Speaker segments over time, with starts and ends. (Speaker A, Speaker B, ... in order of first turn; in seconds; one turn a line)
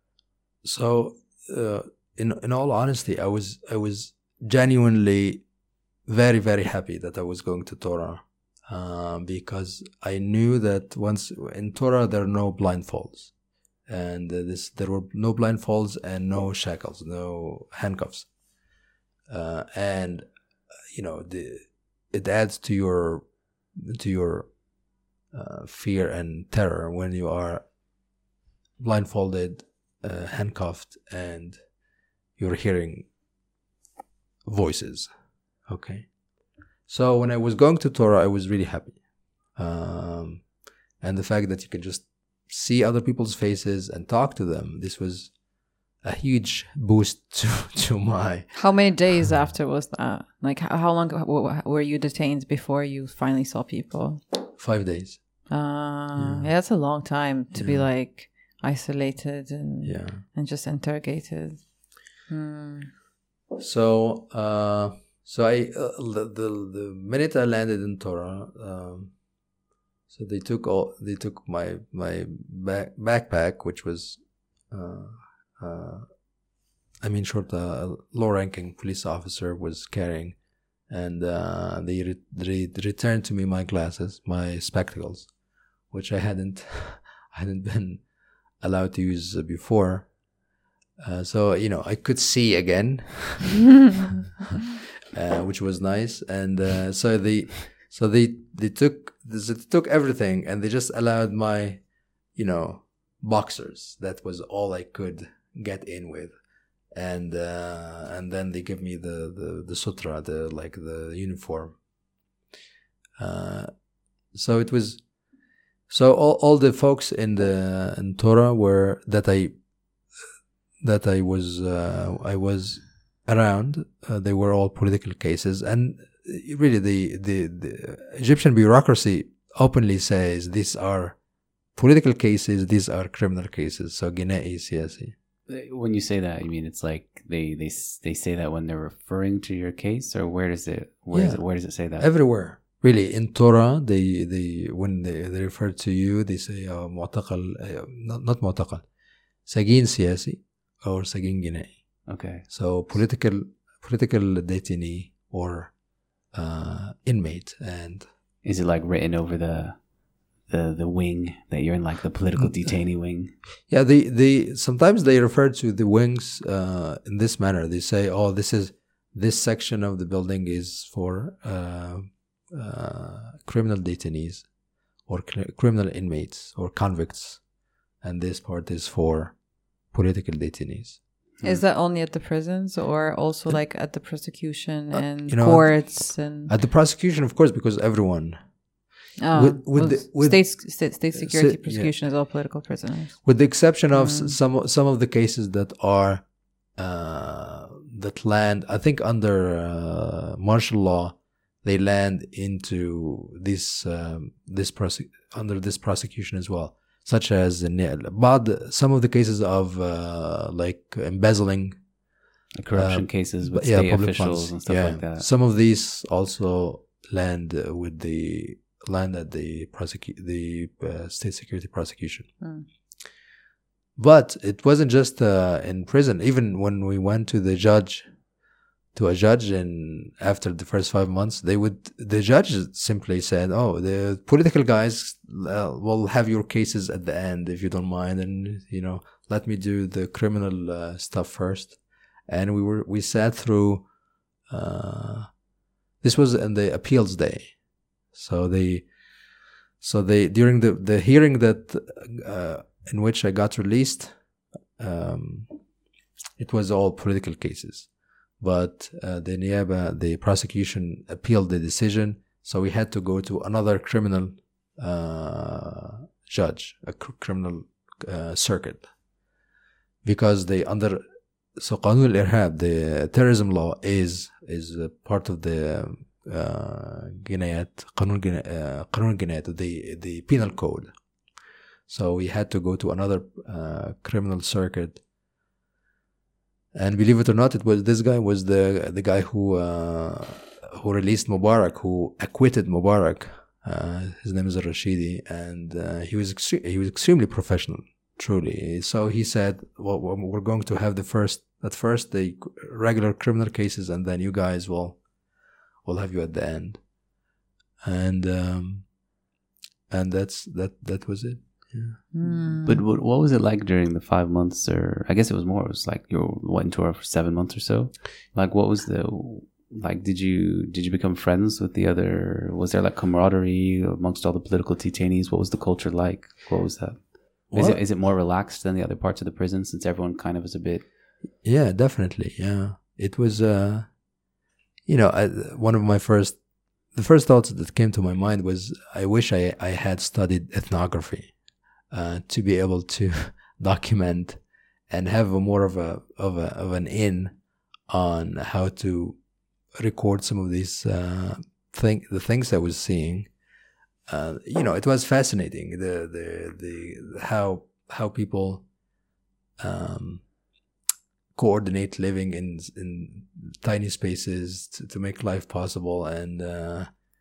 Speaker A: 0.6-5.5
Speaker A: 6.1-13.3
Speaker A: 13.9-18.3
Speaker A: 19.3-20.2
Speaker A: 20.9-24.5
Speaker A: 25.3-27.6
Speaker A: 28.8-31.6
Speaker A: 32.4-33.1
Speaker A: 34.4-35.1
Speaker A: 35.7-36.1
Speaker A: 36.9-40.5
Speaker A: 41.0-45.4
Speaker A: 46.0-48.5
Speaker B: 48.5-54.2
Speaker A: 54.6-55.4
Speaker B: 55.5-62.9
Speaker A: 56.1-56.5
Speaker A: 57.5-57.9
Speaker A: 59.8-60.2
Speaker A: 63.5-69.1
Speaker A: 70.1-76.1
Speaker A: 77.0-85.3
Speaker A: 85.9-88.1
Speaker A: 88.6-90.1
Speaker A: 91.0-93.7
Speaker A: 95.1-106.3
Speaker A: 106.9-111.8
Speaker A: 113.2-113.8
Speaker A: 114.3-115.1
Speaker A: 115.9-119.6
Speaker A: 120.8-131.2
Speaker A: 131.7-135.2
Speaker C: 135.5-142.1
Speaker A: 141.1-148.9
Speaker A: 149.4-155.7
Speaker C: 152.1-152.4
Speaker A: 156.3-158.1
Speaker C: 158.4-159.9
Speaker C: 160.4-163.3
Speaker A: 162.4-162.7
Speaker A: 163.7-174.5
Speaker A: 175.0-177.4
Speaker A: 178.0-181.6
Speaker B: 181.4-186.5
Speaker A: 184.9-188.5
Speaker B: 189.2-194.4
Speaker A: 189.3-191.9
Speaker A: 193.2-211.8
Speaker C: 212.5-215.3
Speaker A: 212.7-222.4
Speaker B: 222.4-222.7
Speaker A: 224.0-228.1
Speaker A: 228.9-243.9
Speaker A: 244.5-245.3
Speaker A: 246.0-247.6
Speaker A: 248.1-248.9
Speaker A: 249.8-254.2
Speaker A: 254.8-255.5
Speaker A: 256.4-268.9
Speaker A: 270.0-271.0
Speaker A: 271.5-280.9
Speaker A: 281.9-285.0
Speaker A: 286.7-305.0
Speaker A: 305.8-306.9
Speaker A: 307.8-308.9
Speaker A: 309.9-312.0
Speaker B: 312.1-312.8
Speaker C: 312.6-330.9
Speaker A: 327.5-327.8
Speaker A: 331.4-334.0
Speaker A: 334.9-341.4
Speaker A: 341.9-349.2
Speaker A: 349.7-353.4
Speaker A: 354.1-358.7
Speaker A: 359.6-360.3
Speaker A: 361.4-366.9